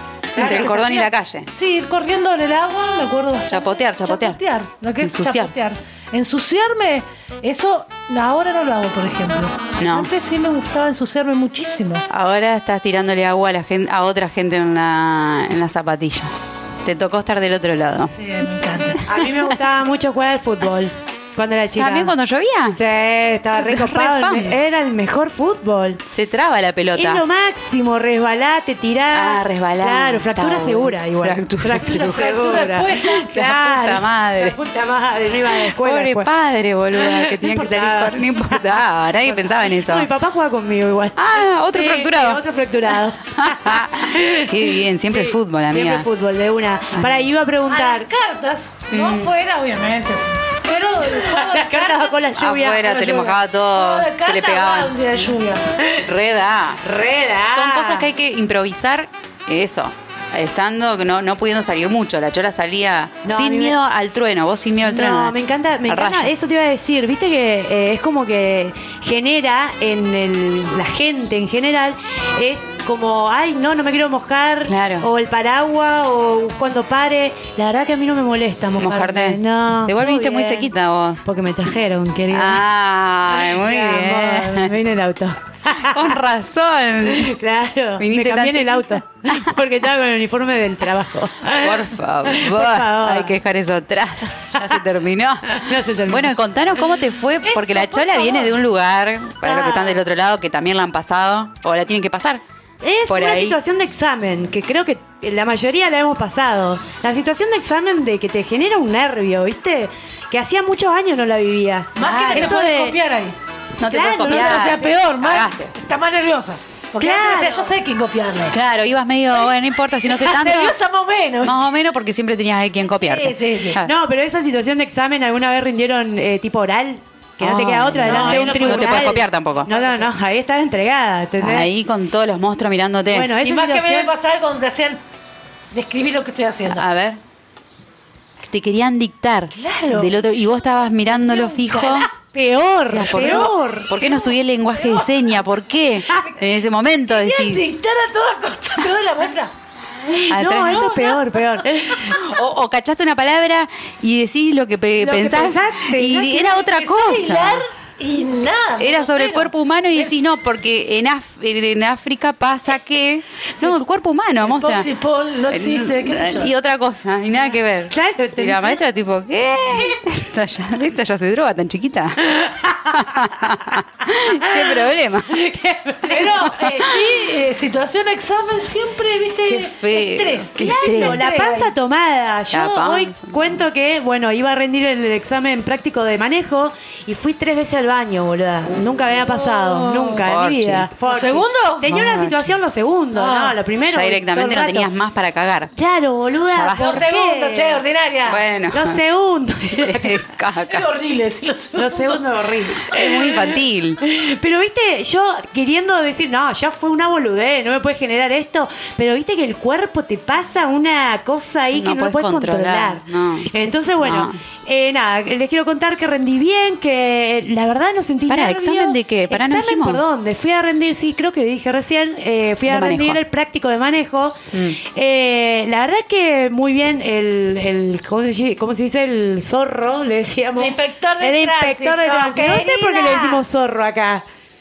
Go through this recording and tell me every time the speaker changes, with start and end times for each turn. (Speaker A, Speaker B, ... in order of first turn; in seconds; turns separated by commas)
Speaker A: 0.3-1.5, Speaker B: 0.4-1.1, Speaker C: 0.4-12.0, Speaker A: 3.5-4.4, Speaker A: 5.0-5.5, Speaker A: 9.8-10.1, Speaker A: 12.1-18.1, Speaker C: 18.2-19.2, Speaker B: 19.1-22.1, Speaker A: 19.1-19.6, Speaker A: 21.8-22.8, Speaker B: 22.7-26.0, Speaker A: 23.5-24.5, Speaker A: 26.1-27.2, Speaker B: 26.9-36.3, Speaker A: 29.1-32.3, Speaker C: 31.9-33.3, Speaker A: 32.9-34.6, Speaker A: 35.5-40.1, Speaker B: 36.9-48.1, Speaker A: 41.2-46.1, Speaker A: 47.0-47.3, Speaker C: 47.7-52.2, Speaker A: 48.9-49.3, Speaker B: 51.1-52.9, Speaker A: 52.3-55.1, Speaker C: 52.8-55.8, Speaker A: 55.9-56.8, Speaker B: 56.8-58.1, Speaker A: 57.5-65.3, Speaker B: 63.2-63.8, Speaker B: 64.8-80.7, Speaker A: 65.9-66.3, Speaker A: 74.7-75.1, Speaker A: 78.8-81.2, Speaker B: 81.2-82.6, Speaker A: 82.3-84.7, Speaker B: 83.3-86.2, Speaker A: 85.8-87.4, Speaker B: 87.0-93.3, Speaker A: 88.0-89.5, Speaker A: 91.6-102.4, Speaker B: 95.5-96.3, Speaker C: 97.4-98.6, Speaker B: 99.4-100.0, Speaker B: 102.8-113.0, Speaker A: 103.1-103.6, Speaker C: 112.0-113.4, Speaker A: 112.0-112.6, Speaker A: 113.8-115.7, Speaker B: 113.9-114.9, Speaker C: 114.2-118.6, Speaker B: 117.0-117.7, Speaker A: 118.5-120.8, Speaker C: 120.0-121.5, Speaker A: 121.4-123.9, Speaker C: 123.0-123.8, Speaker B: 123.8-131.7, Speaker A: 127.4-129.7, Speaker C: 128.0-130.1, Speaker A: 131.4-133.3, Speaker B: 133.1-134.1, Speaker C: 133.4-135.0, Speaker C: 135.7-136.8, Speaker A: 136.7-137.2, Speaker A: 138.5-142.1, Speaker C: 139.5-140.2, Speaker C: 141.0-142.1, Speaker B: 142.2-143.9, Speaker A: 142.8-147.7, Speaker C: 143.1-145.0, Speaker C: 147.1-149.5, Speaker B: 150.1-151.9, Speaker A: 150.3-150.9, Speaker C: 150.6-152.2, Speaker A: 151.9-157.6, Speaker B: 155.0-156.5, Speaker C: 156.6-160.1, Speaker A: 158.8-164.9, Speaker C: 164.4-166.5, Speaker A: 165.5-172.2, Speaker B: 167.9-168.8, Speaker A: 172.9-175.4, Speaker B: 175.3-176.2, Speaker C: 176.0-181.7, Speaker A: 176.5-176.9, Speaker A: 179.5-181.2, Speaker B: 180.6-194.9, Speaker A: 182.5-183.6, Speaker C: 189.2-190.1, Speaker A: 190.0-190.9, Speaker C: 191.0-191.9, Speaker A: 191.8-192.4, Speaker C: 193.1-193.6, Speaker A: 193.9-195.7, Speaker B: 195.8-197.8, Speaker A: 196.5-197.1, Speaker C: 196.8-198.4, Speaker A: 198.3-199.0, Speaker B: 198.7-200.2, Speaker A: 199.8-200.9, Speaker C: 200.6-203.6, Speaker B: 201.8-203.2, Speaker A: 202.9-204.0, Speaker B: 204.0-234.2, Speaker A: 211.8-213.5, Speaker A: 214.0-214.4, Speaker A: 218.3-220.0, Speaker A: 222.7-223.2, Speaker A: 224.5-224.8, Speaker C: 230.6-233.4